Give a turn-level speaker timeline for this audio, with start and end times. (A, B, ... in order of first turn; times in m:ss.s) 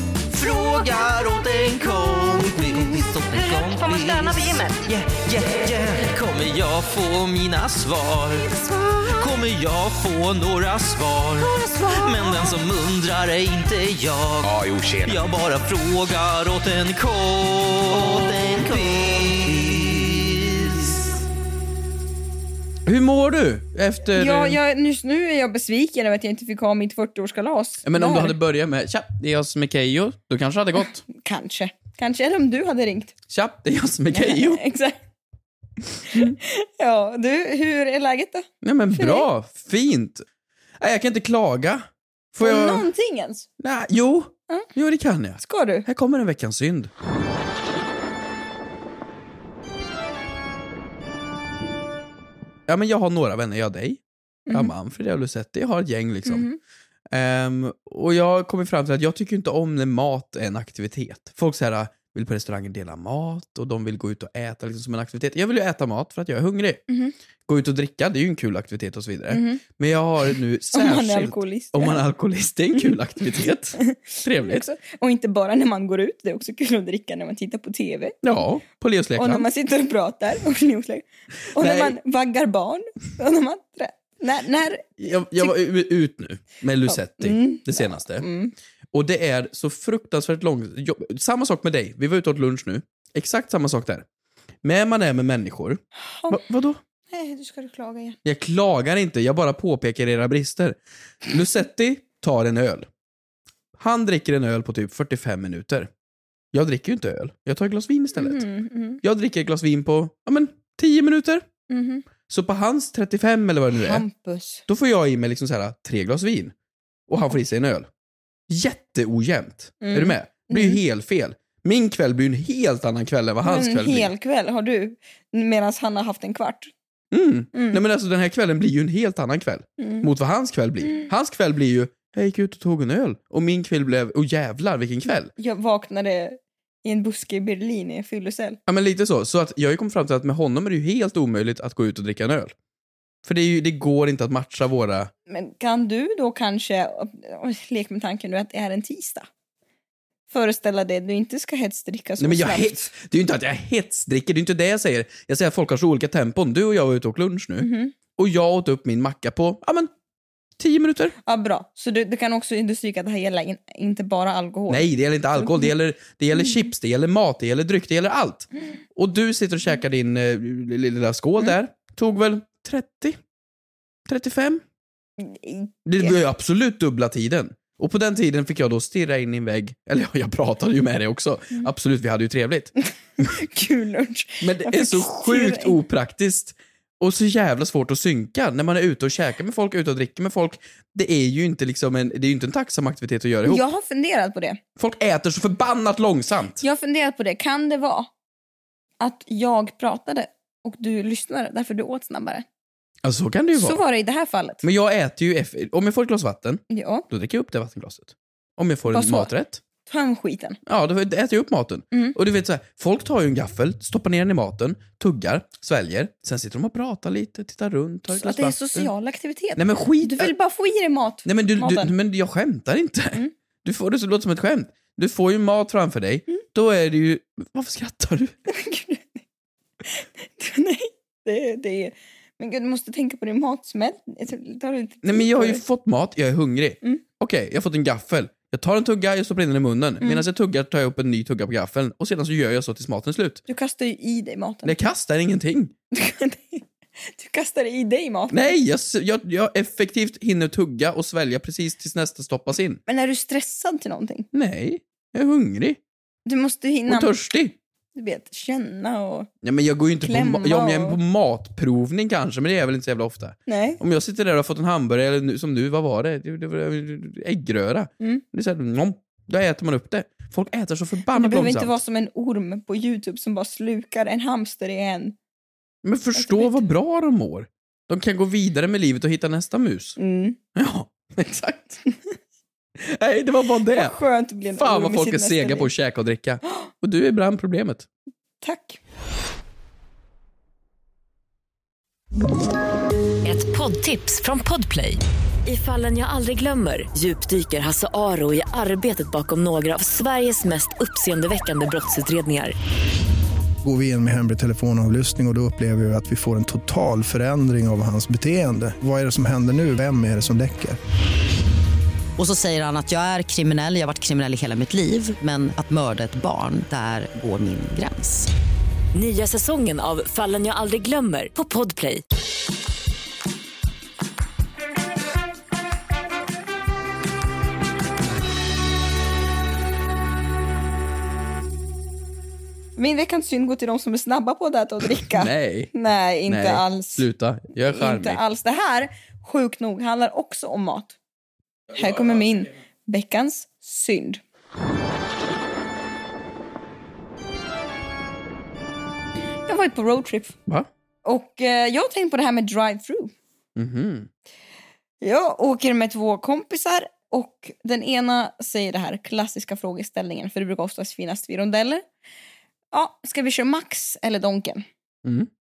0:00.3-0:21.1 A
0:08.5-0:09.1 B
0:11.4-0:12.5 B
0:22.9-0:24.6 C
0:24.2-0:28.4 B
0:27.8-0:31.0 C
0:31.1-0:33.1 B
0:33.3-0:34.6 C
0:34.1-0:35.0 B
0:36.0-0:39.3 B
0:36.1-0:36.4 C
0:38.6-0:40.2 C
0:40.8-0:42.9 C
0:42.4-0:43.5 B
0:43.6-0:46.9 C
0:45.4-0:45.9 B
0:52.7-0:56.5 C
0:56.2-0:56.6 B
0:57.1-1:06.8 C
1:06.9-1:07.1 B
1:07.5-1:14.7 C
1:09.3-1:09.6 B
1:10.7-1:12.0 B
1:13.8-1:18.2 B
1:18.2-1:19.5 C
1:19.2-1:25.6 B
1:21.5-1:22.0 C
1:25.0-1:28.3 C
1:26.9-1:28.5 B
1:28.9-1:34.0 C
1:34.6-1:36.8 C
1:36.0-1:36.4 B
1:37.1-1:38.2 B
1:38.2-1:42.9 C
1:43.8-1:45.9 C
1:46.5-1:48.5 C
1:48.2-1:49.0 B
1:49.0-1:51.4 C
1:51.7-1:52.0 B
1:52.3-1:54.0 C
1:53.7-1:54.6 B
1:54.7-1:56.5 C
1:57.1-1:57.9 C
1:58.5-2:04.1 C
1:59.8-2:00.8 B
2:03.4-2:06.7 B
2:07.1-2:15.3 C
2:07.5-2:07.8 B
2:09.8-2:10.1 B
2:15.4-2:18.6 B
2:18.7-2:22.5 C
2:23.2-2:25.1 C
2:25.3-2:29.3 B
2:30.3-2:32.9 B
2:32.2-2:39.9 C
2:37.6-2:37.9 B
2:40.6-2:41.2 C
2:41.3-2:45.7 B
2:44.7-2:53.2 C
2:54.1-2:54.6 C
2:55.2-2:56.2 B
2:55.8-3:03.3 C
3:03.2-3:05.8 B
3:04.4-3:13.6 C
3:13.4-3:14.6 B
3:14.8-3:16.6 C
3:16.6-3:18.1 B
3:19.0-3:22.4 B
3:23.0-3:23.8 C
3:23.6-3:24.6 B
3:24.6-3:29.6 C
3:26.7-3:27.1 B
3:28.9-3:29.3 B
3:29.9-3:30.6 B
3:30.7-3:38.9 C
3:38.1-3:41.9 B
3:39.6-3:40.3 C
3:41.2-3:48.4 C
3:48.5-3:49.2 B
3:49.8-3:55.6 B
3:55.0-4:03.4 C
4:03.5-4:04.8 B
4:04.6-4:05.7 C
4:05.9-4:08.6 B
4:08.3-4:12.8 C
4:12.9-4:14.3 B
4:14.3-4:15.8 C
4:16.3-4:17.2 B
4:16.9-4:17.6 C
4:18.0-4:19.3 B
4:19.4-4:31.8 C
4:20.0-4:21.0 B
4:23.5-4:23.8 B
4:31.1-4:35.2 B
4:35.8-4:40.0 C
4:36.2-4:36.6 B
4:40.0-4:40.4 B
4:40.6-4:41.8 C
4:42.8-4:44.0 C
4:43.7-4:45.7 B
4:44.6-4:47.9 C
4:48.4-4:48.8 B
4:53.2-5:02.6 D
5:03.6-5:10.8 E
5:12.2-5:18.3 F
5:18.9-5:22.0 D
5:32.8-5:37.0 B
5:35.0-5:35.7 C
5:36.3-5:38.2 C
5:37.7-5:41.0 B
5:41.8-5:44.2 B
5:41.8-5:42.2 C
5:49.5-5:50.4 B
5:51.0-5:53.1 B
5:53.6-5:54.1 C
5:55.0-6:01.8 B
6:02.7-6:04.6 B
6:05.0-6:05.3 C